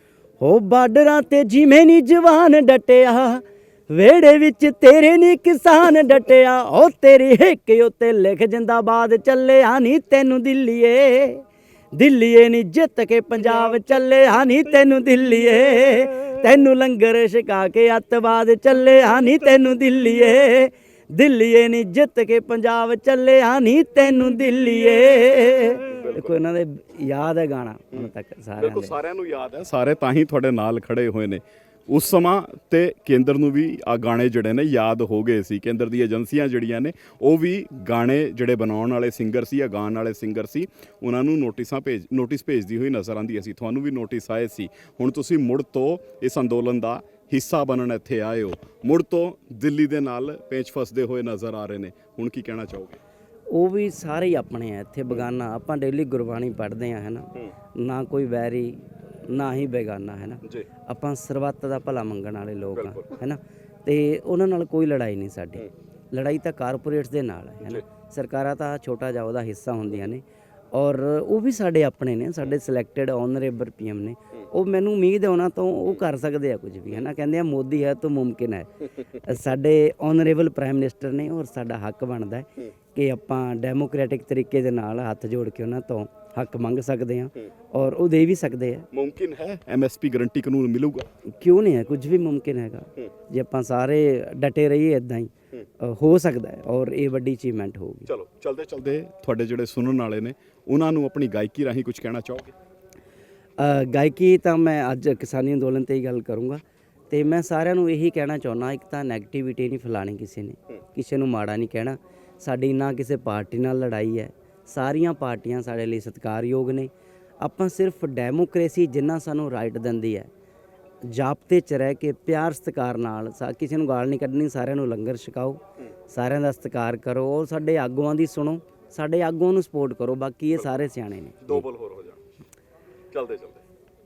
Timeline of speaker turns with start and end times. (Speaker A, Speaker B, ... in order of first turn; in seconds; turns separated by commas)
Speaker A: 0.4-28.9, Speaker B: 25.9-26.3, Speaker B: 28.6-53.0, Speaker A: 53.5-88.9, Speaker B: 88.9-91.1, Speaker A: 91.3-98.1, Speaker B: 98.1-102.5, Speaker A: 103.6-120.3, Speaker A: 121.0-131.6, Speaker B: 131.4-132.2, Speaker B: 133.1-133.6